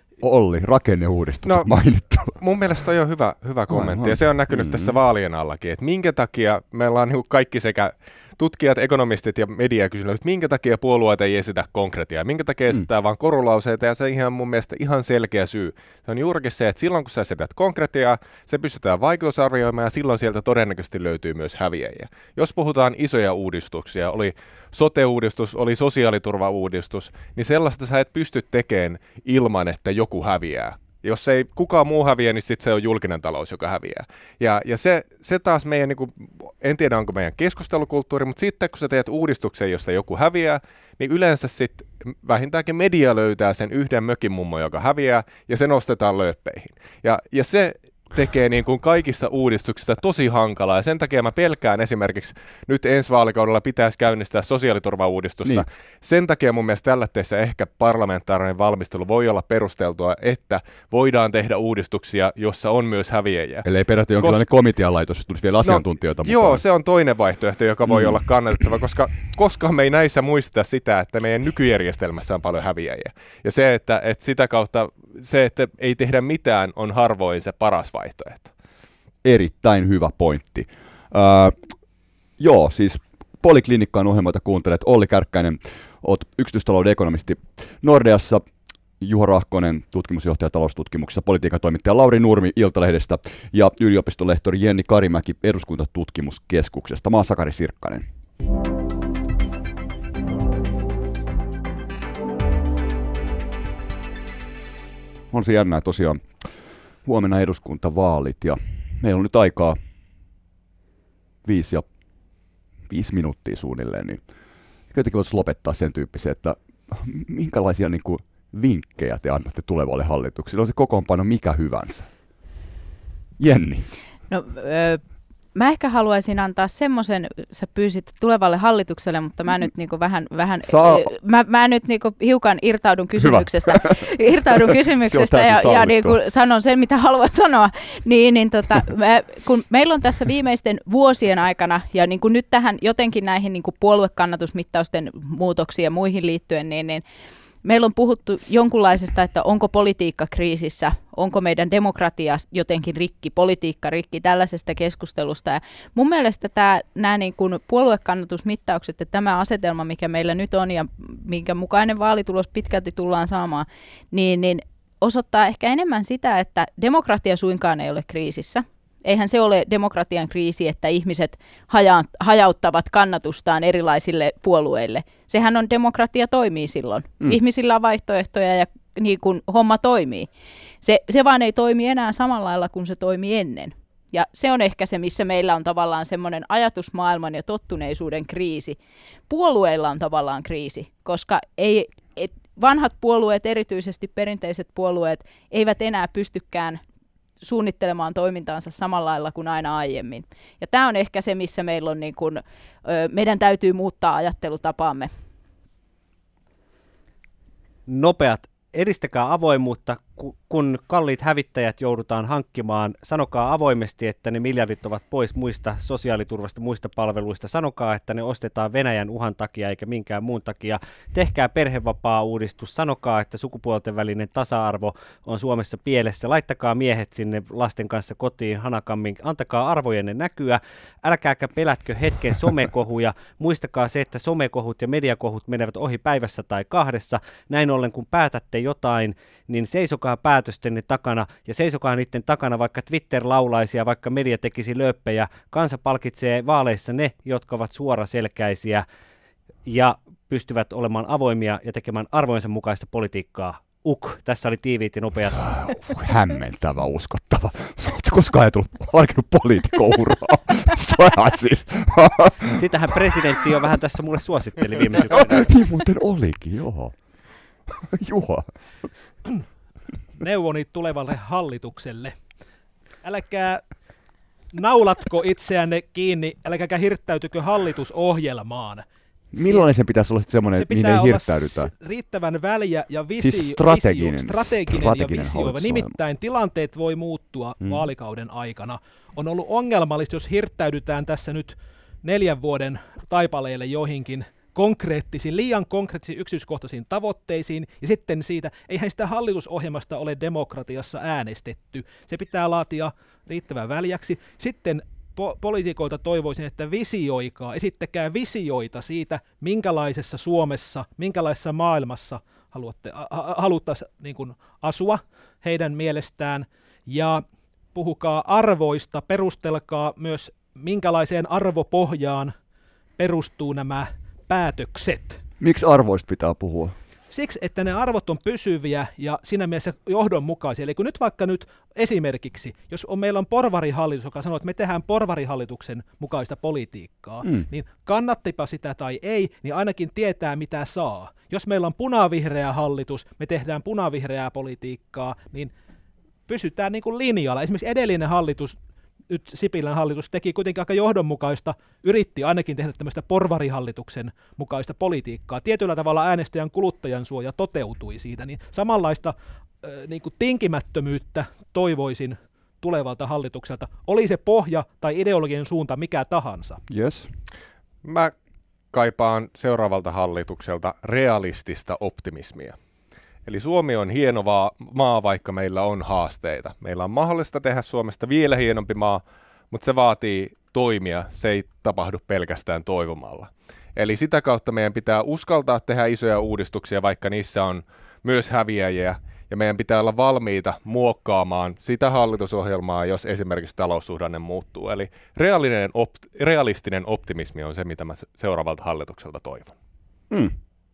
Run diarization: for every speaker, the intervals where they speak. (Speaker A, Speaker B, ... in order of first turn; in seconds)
Speaker A: 0.2-2.4, 3.7-4.9, 63.6-66.6, 67.9-68.2, 79.2-81.5, 82.4-88.5, 89.0-98.0, 105.3-109.8, 111.4-111.8, 112.9-114.2, 114.9-122.1, 123.4-123.9, 130.7-131.1, 133.2-134.0, 135.1-136.2, 255.4-262.6, 265.1-266.9, 267.7-268.5, 279.3-281.7, 283.2-285.9, 325.4-326.7, 366.7-367.1
Speaker B: 2.4-63.7, 64.2-64.4, 65.6-78.5, 367.8-368.1, 368.7-372.6, 373.2-399.5
Speaker C: 124.3-125.0, 125.5-147.0, 147.6-180.3, 180.8-196.8, 197.4-205.1
Speaker D: 207.9-248.8, 249.7-255.7, 262.5-265.4
Speaker E: 270.2-272.2, 273.0-273.6, 274.5-278.9, 279.4-279.6, 280.6-322.3, 323.0-325.2, 327.1-345.5, 346.3-348.6, 349.1-366.6